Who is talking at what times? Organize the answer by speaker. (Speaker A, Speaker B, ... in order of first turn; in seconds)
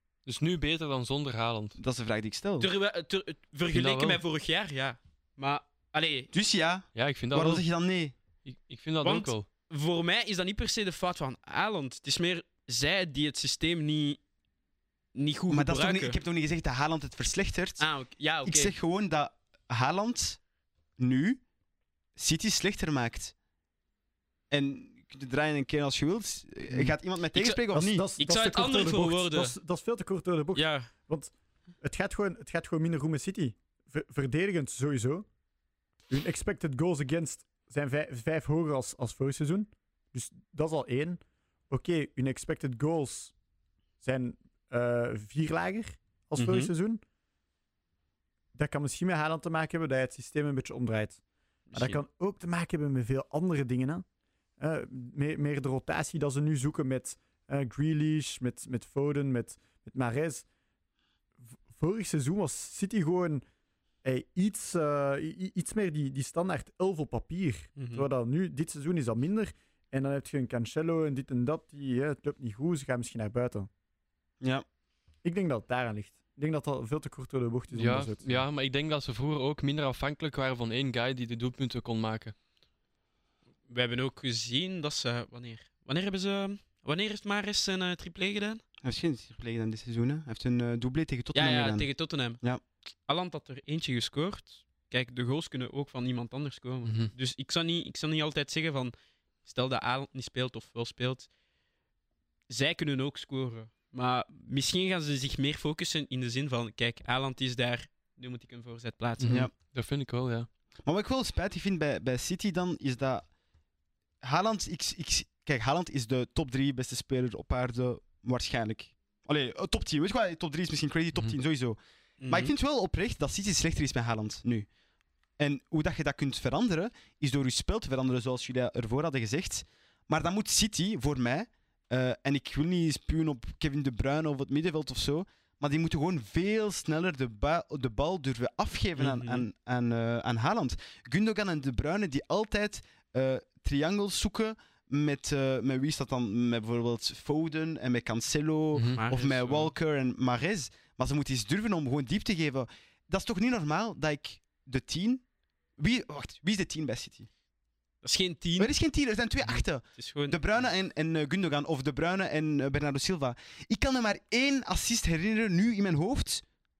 Speaker A: 0.2-1.8, 3.7-4.2, 6.9-7.6, 8.4-9.4, 77.7-82.3, 96.8-97.1, 109.2-110.5, 148.7-149.0
Speaker B: 1.8-2.7, 6.3-8.1, 15.5-17.9, 18.4-20.4, 21.0-21.4, 22.1-23.3, 24.5-28.1, 88.8-92.6, 109.2-109.5, 110.8-113.3, 114.2-124.7, 125.4-155.2, 155.8-157.3, 158.6-166.4
Speaker C: 2.6-6.3, 9.0-14.2, 15.1-16.2, 17.8-18.7, 27.3-27.6, 28.2-29.5, 30.5-30.9, 46.4-46.7, 51.7-52.0, 67.8-68.0, 83.7-88.6, 91.3-92.4, 93.0-101.3, 102.5-109.4, 122.2-122.5, 139.0-139.4, 148.9-149.7, 158.0-158.7, 159.4-160.4
Speaker D: 27.7-35.2, 36.1-43.3, 44.0-47.0, 48.5-51.2, 51.7-54.0, 54.6-60.4, 61.7-63.4, 64.0-73.7, 75.2-78.5